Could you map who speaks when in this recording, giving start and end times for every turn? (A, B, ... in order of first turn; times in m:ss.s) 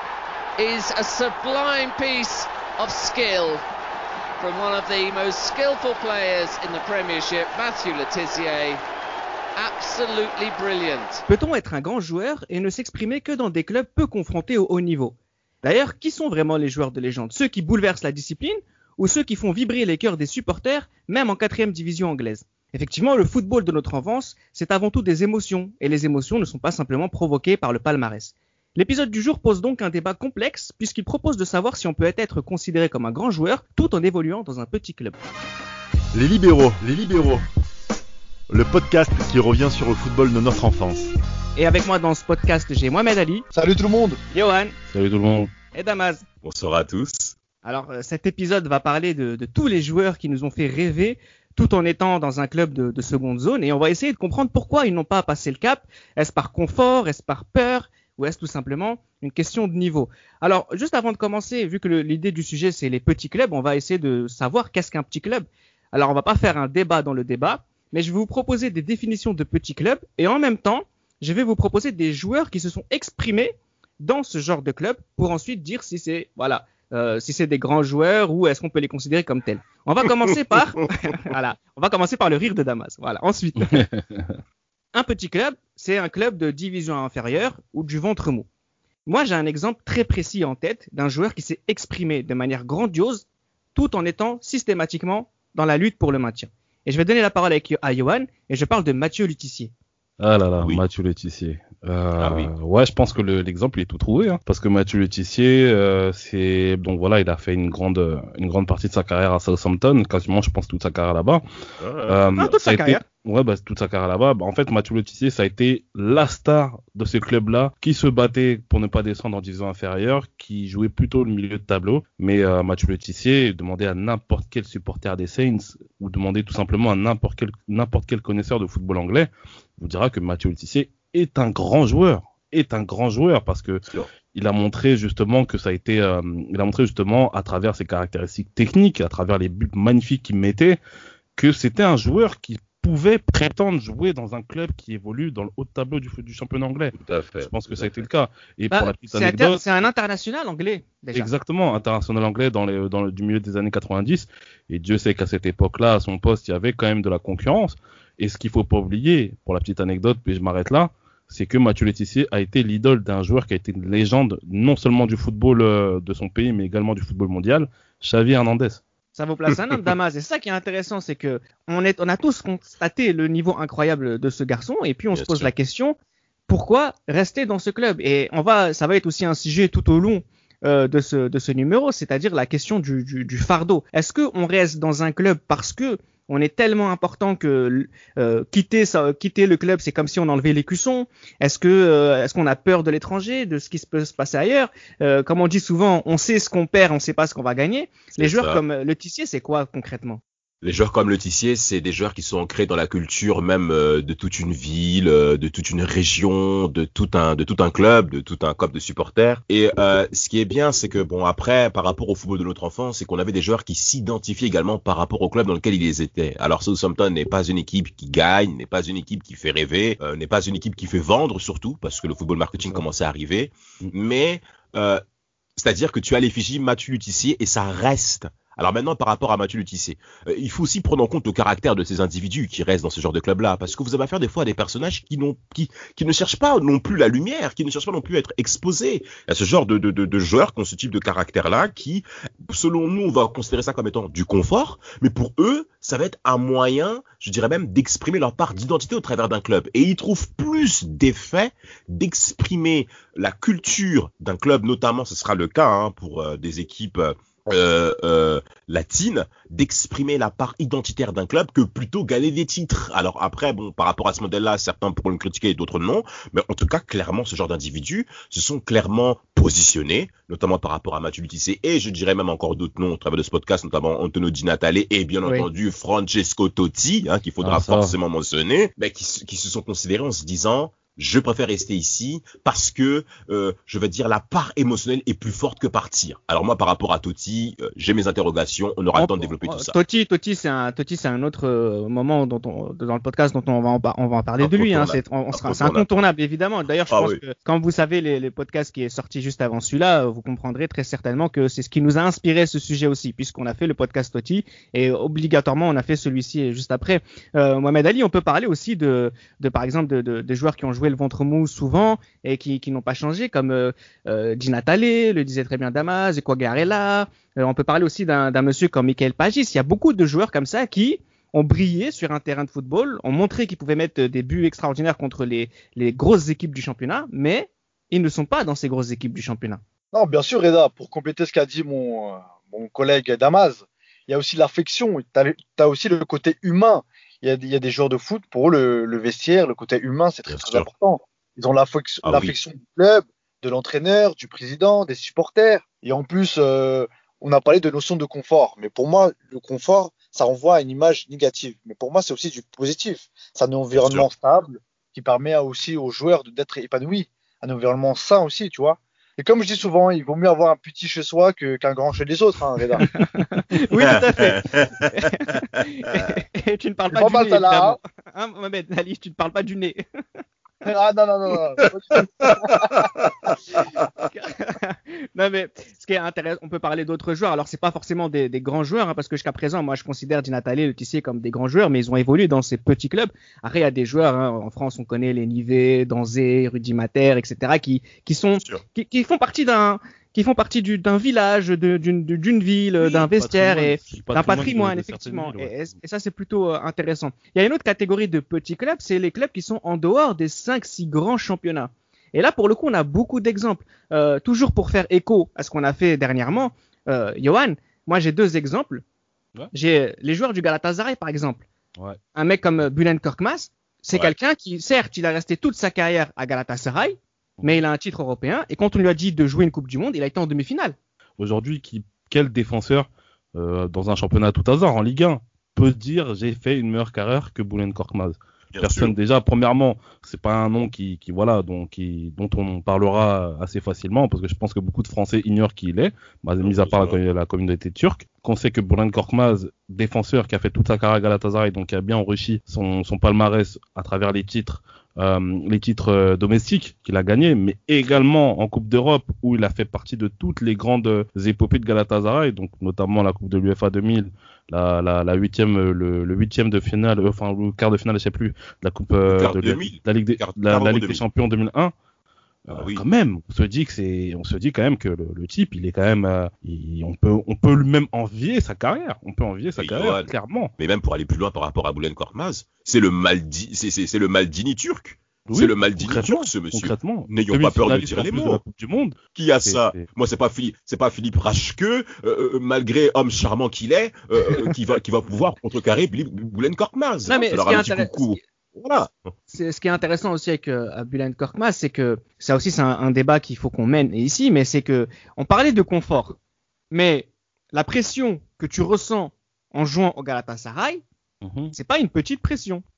0:00.6-0:03.6 A
0:04.4-0:08.8 A
0:09.6-0:11.2 A
0:11.3-0:35.2 B
0:36.1-0:37.4 C
0:38.5-0:41.0 C
0:41.6-0:43.4 B
0:43.5-0:44.2 D
0:44.3-0:44.7 B
0:44.9-0:45.5 E
0:45.7-0:46.2 B
0:46.4-0:47.3 F
0:47.6-1:23.8 B
1:23.7-1:24.4 E
1:24.9-1:28.5 B
1:29.0-1:39.7 B
1:40.2-1:51.4 E
1:42.2-1:42.5 F
1:51.8-1:52.5 F
1:52.0-2:20.8 E
1:52.4-1:53.0 B
2:21.4-2:27.0 E
2:26.9-2:28.0 F
2:27.5-2:29.6 E
2:28.7-2:31.3 B
2:31.1-2:48.8 E
2:49.1-2:56.0 B
2:55.1-2:55.5 F
2:56.5-3:20.2 B
3:18.2-3:18.6 F
3:20.6-3:45.0 F
3:45.6-4:49.8 F
4:37.4-4:37.9 E
4:48.9-5:29.6 B
4:54.4-4:55.9 F
4:56.9-4:57.2 F
5:29.9-6:02.9 D
5:40.3-5:40.6 F
5:42.0-5:42.3 F
5:53.8-5:54.0 F
6:02.9-6:09.8 B
6:03.7-6:04.9 F
6:06.9-6:07.8 D
6:10.6-6:12.9 D
6:12.3-6:13.3 F
6:14.0-6:48.8 B
6:28.4-6:28.6 F
6:32.8-6:35.7 E
6:49.5-6:51.4 B
6:52.1-7:00.8 B
7:01.2-7:41.7 E
7:08.5-7:08.9 F
7:16.4-7:17.0 F
7:39.1-7:41.0 F
7:42.5-7:50.5 E
7:42.5-7:42.8 F
7:49.6-7:58.4 F
7:55.3-7:59.8 E
7:59.1-8:08.9 F
8:07.1-8:08.2 B
8:09.3-8:16.2 B
8:16.7-8:20.8 B
8:21.2-8:21.5 E
8:21.5-8:22.6 B